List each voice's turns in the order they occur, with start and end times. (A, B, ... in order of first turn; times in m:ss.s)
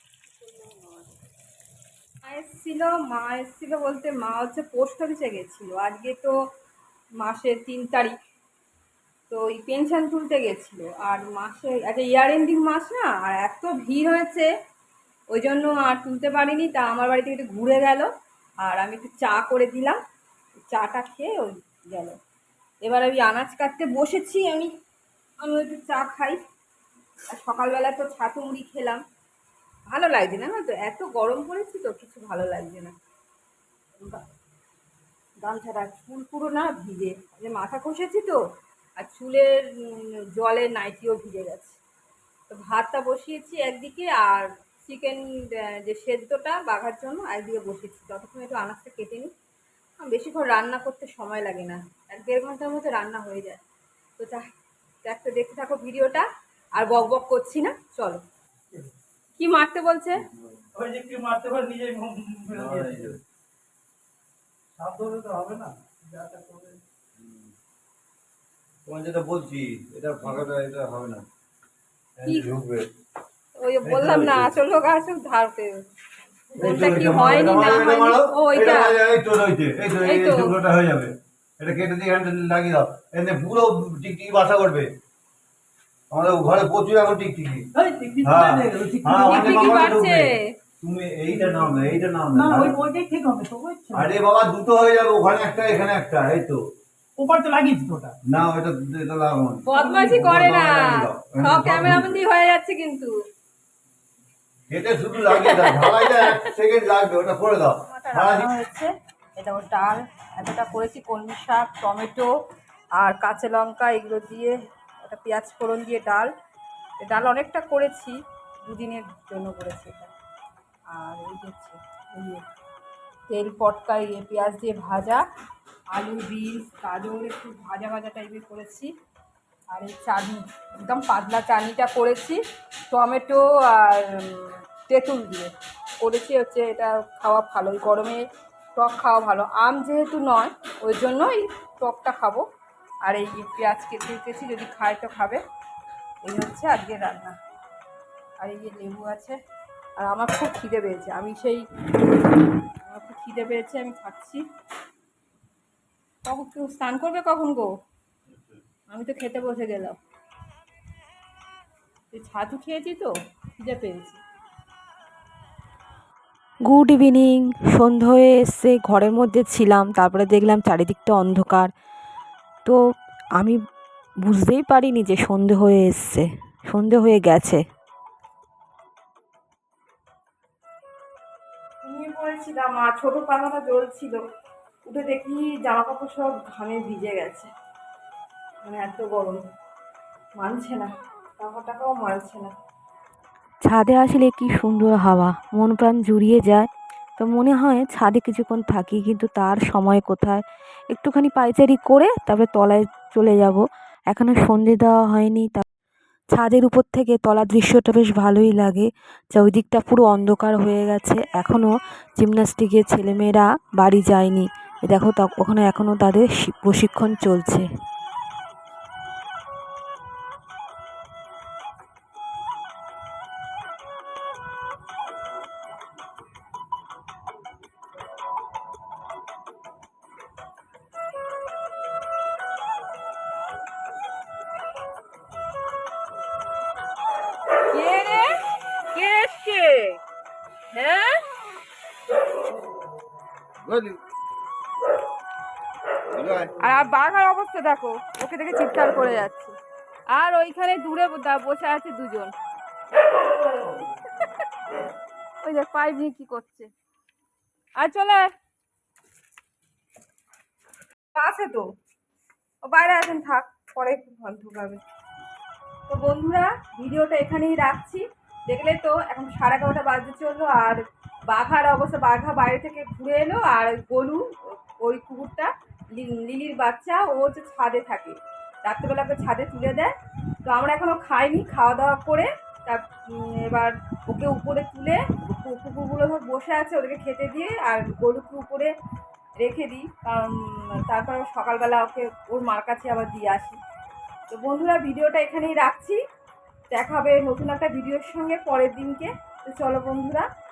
0:00.4-0:01.0 A
0:02.2-0:06.4 A
0:07.2-0:08.2 A
0:09.3-0:14.5 A
0:15.3-0:18.1 A
0:18.6-0:20.0 A
0:20.7-0:22.2 A
0:22.8-0:24.7 A
0:25.4-0:26.4 A
0:27.3-0:29.0 A
0:29.9-0:32.9 A
0:35.4-0:38.4 A
0:39.0-0:41.8 A
0:42.5-0:49.3 A
0:50.0-0:53.6 A
0:54.2-0:54.5 A
0:55.0-0:58.2 A
0:59.4-1:00.2 A
1:00.8-1:03.1 B
1:02.5-1:03.2 C
1:04.8-1:06.8 B
1:07.2-1:07.5 C
1:08.8-1:11.3 C
1:12.2-1:12.9 C
1:12.2-1:12.5 A
1:13.6-1:15.8 A
1:13.8-1:14.5 C
1:16.6-1:19.0 A
1:16.6-1:24.9 C
1:20.0-1:20.5 A
1:26.1-1:27.7 C
1:27.8-1:29.9 B
1:28.2-1:30.3 C
1:29.3-1:30.6 A
1:30.8-1:32.8 C
1:31.3-1:34.2 B
1:33.9-1:36.6 C
1:37.2-1:38.2 B
1:38.2-1:42.1 C
1:39.7-1:43.1 A
1:39.7-1:40.1 B
1:44.7-1:48.5 C
1:45.3-1:46.4 A
1:47.8-1:52.3 A
1:53.0-1:56.3 A
1:57.0-2:00.1 A
2:00.9-2:02.4 A
2:03.3-2:05.2 A
2:05.9-2:08.9 A
2:09.7-2:22.5 A
2:23.0-2:25.4 A
2:26.2-2:27.4 A
2:28.4-2:29.4 A
2:30.0-2:31.6 A
2:32.8-2:34.4 A
2:36.3-2:37.7 A
2:38.9-2:40.0 A
2:42.1-2:44.2 A
2:46.7-2:51.7 D
2:54.2-2:57.6 D
3:01.8-3:04.2 A
3:04.9-3:07.5 A
3:08.6-3:09.4 A
3:10.4-3:12.5 A
3:13.6-3:25.6 D
3:26.3-3:37.7 D
3:57.7-3:58.4 A
3:59.0-4:00.0 A
4:00.7-4:01.2 A
4:03.6-4:04.0 C
4:06.1-4:06.5 C
4:06.6-4:09.6 A
4:10.1-4:12.3 A
4:15.4-4:16.7 A
4:17.8-4:18.3 A
4:21.2-4:21.6 A
4:22.6-4:24.8 A
4:25.9-4:30.8 A
4:31.3-4:39.9 A
4:40.4-4:48.7 A
4:49.4-4:53.6 A
4:54.3-4:56.0 A
4:56.7-5:00.3 A